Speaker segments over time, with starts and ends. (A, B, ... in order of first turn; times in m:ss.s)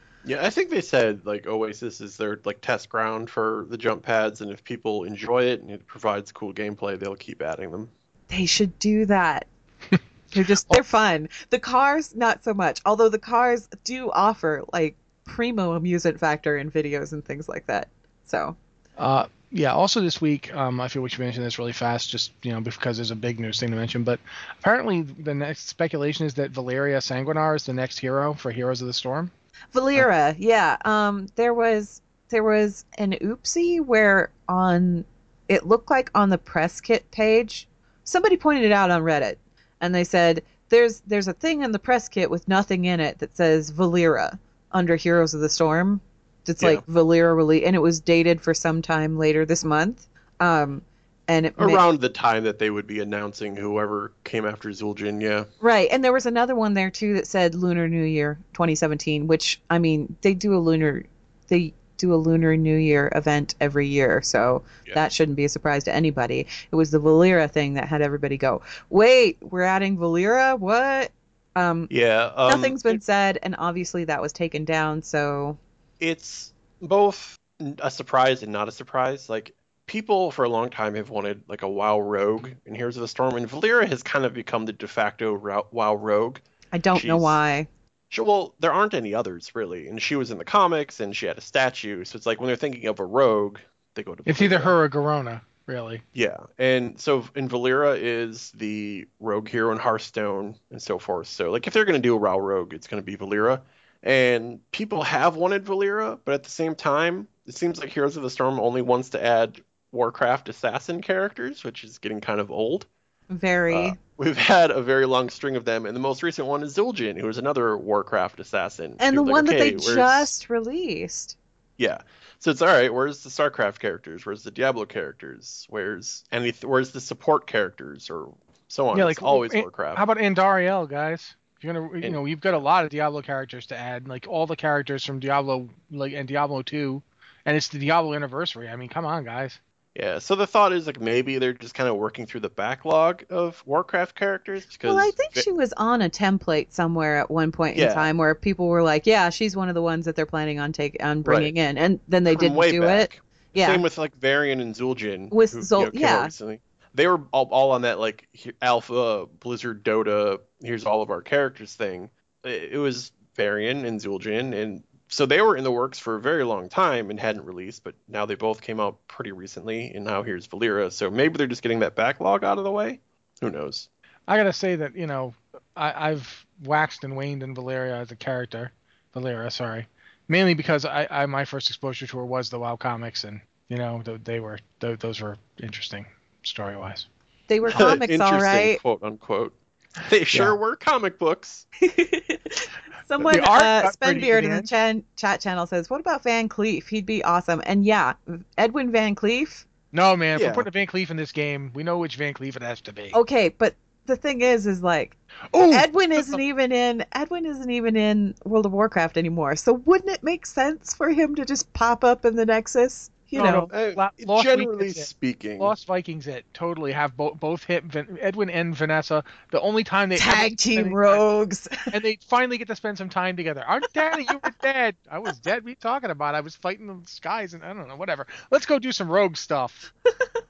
0:00.2-0:07.9 A
0:08.3-0:09.5 B
0:10.3-0:18.6 B
0:19.0-0:29.3 C
0:29.7-0:51.8 B
0:51.6-0:55.5 A
0:55.6-1:11.9 B
1:11.9-1:13.0 A
1:12.5-1:15.6 B
1:16.0-1:27.4 A
1:26.7-1:27.7 B
1:28.1-1:34.8 A
1:34.3-1:36.0 C
1:36.1-1:52.9 A
1:53.3-1:54.0 B
1:53.7-2:00.3 A
1:59.0-2:01.4 B
2:01.8-2:10.0 A
2:08.9-2:19.6 C
2:19.9-2:25.4 A
2:24.8-2:33.8 B
2:27.7-2:28.1 A
2:31.2-2:31.5 A
2:32.2-2:53.9 A
2:35.3-2:36.3 B
2:54.3-3:07.1 C
3:07.5-3:08.8 B
3:07.7-3:11.6 A
3:10.3-3:10.6 C
3:11.8-3:19.6 B
3:13.3-3:14.7 C
3:19.9-3:23.2 C
3:20.4-3:20.6 A
3:23.1-3:25.2 B
3:25.5-3:26.4 C
3:25.7-3:33.7 B
3:33.4-3:35.1 C
3:33.7-3:35.7 A
3:35.6-3:41.2 C
3:40.2-3:41.7 B
3:41.9-3:49.8 C